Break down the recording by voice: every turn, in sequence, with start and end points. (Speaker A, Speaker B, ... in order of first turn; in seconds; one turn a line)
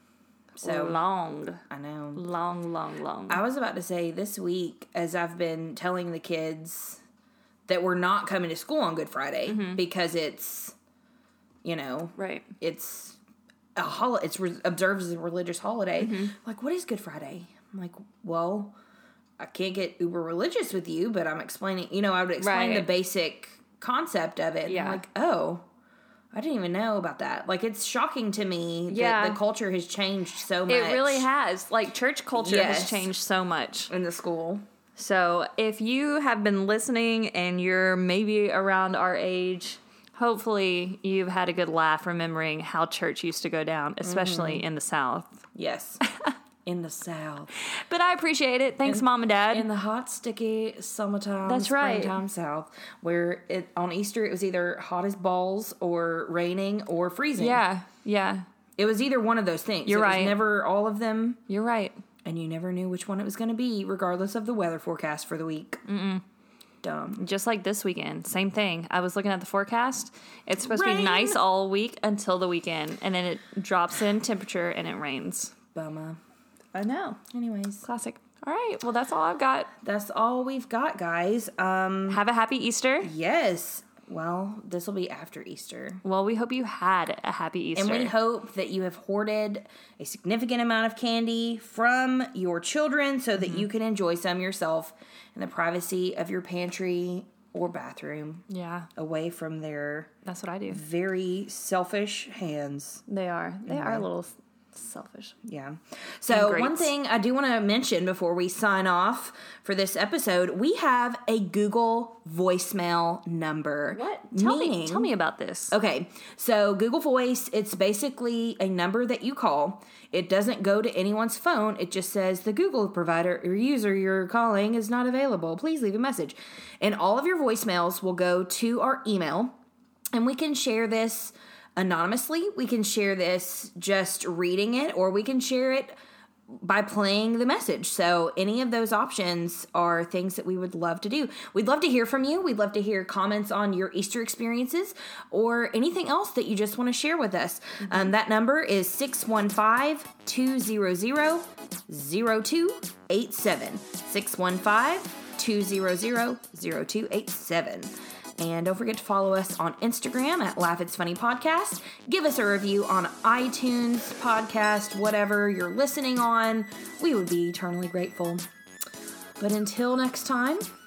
Speaker A: 0.6-1.6
Speaker B: 0.6-1.0
Speaker B: 1.7-2.2
Speaker A: 2.1-3.4
Speaker B: 3.3-7.0
Speaker B: 7.7-10.8
Speaker A: 9.5-9.8
Speaker B: 11.6-13.2
Speaker A: 12.2-12.5
Speaker B: 13.8-18.8
Speaker A: 16.0-16.4
Speaker B: 19.4-25.6
Speaker A: 22.4-22.9
Speaker A: 24.7-25.0
Speaker B: 26.3-31.3
Speaker A: 28.9-29.4
Speaker A: 30.7-33.9
Speaker B: 32.4-33.1
Speaker B: 33.9-34.6
Speaker A: 35.0-45.4
Speaker B: 44.0-44.6
Speaker B: 45.5-46.0
Speaker B: 46.6-47.5
Speaker A: 47.7-49.7
Speaker B: 48.9-57.6
Speaker A: 51.5-52.2
Speaker A: 57.4-58.5
Speaker B: 58.8-61.4
Speaker A: 59.9-60.4
Speaker A: 61.5-62.0
Speaker B: 62.2-65.8
Speaker A: 65.9-66.2
Speaker B: 66.8-67.2
Speaker A: 67.2-75.5
Speaker B: 70.6-71.4
Speaker B: 75.8-76.2
Speaker A: 76.7-77.2
Speaker B: 77.2-77.8
Speaker A: 77.8-79.7
Speaker B: 79.8-82.2
Speaker A: 82.1-83.1
Speaker B: 83.0-86.0
Speaker A: 86.0-88.1
Speaker B: 87.8-98.5
Speaker A: 93.4-93.7
Speaker A: 98.5-98.9
Speaker B: 99.0-100.1
Speaker A: 100.2-100.8
Speaker B: 100.7-103.0
Speaker A: 103.1-105.3
Speaker B: 103.7-104.0
Speaker B: 105.5-115.1
Speaker A: 106.3-106.9
Speaker A: 113.9-115.8
Speaker B: 115.7-129.6
Speaker B: 130.1-135.9
Speaker B: 136.5-168.4
Speaker B: 169.4-170.6